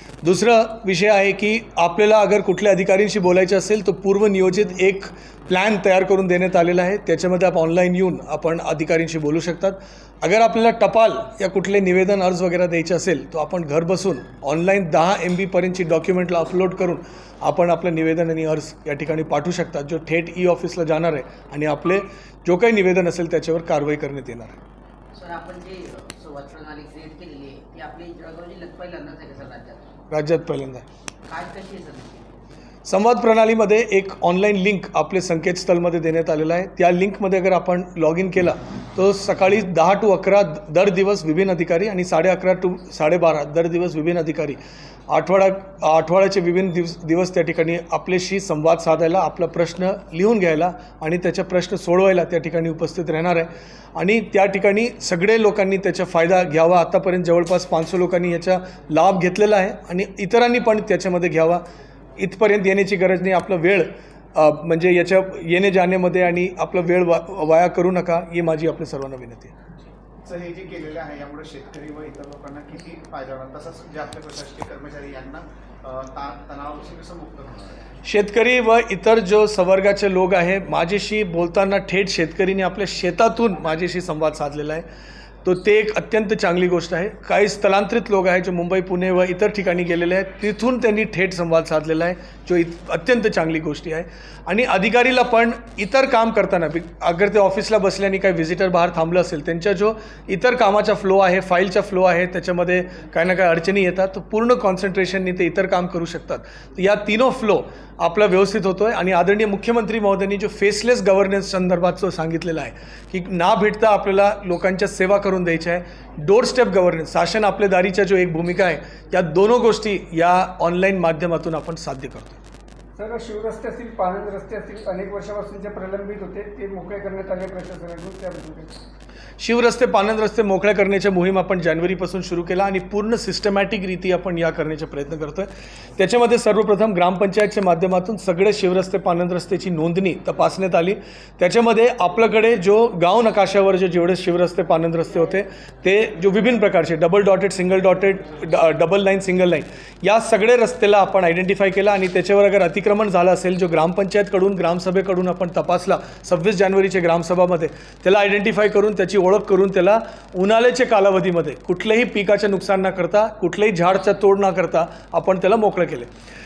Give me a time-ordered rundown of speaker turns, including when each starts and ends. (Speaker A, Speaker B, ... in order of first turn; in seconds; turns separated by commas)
Speaker A: 0.2-24.6, Speaker B: 25.1-30.0, Speaker A: 30.1-30.9, Speaker B: 31.2-32.3, Speaker A: 32.9-61.6, Speaker A: 62.2-69.5, Speaker C: 70.2-77.9, Speaker A: 78.0-84.9, Speaker A: 85.4-122.4, Speaker D: 123.0-128.8, Speaker A: 129.4-166.1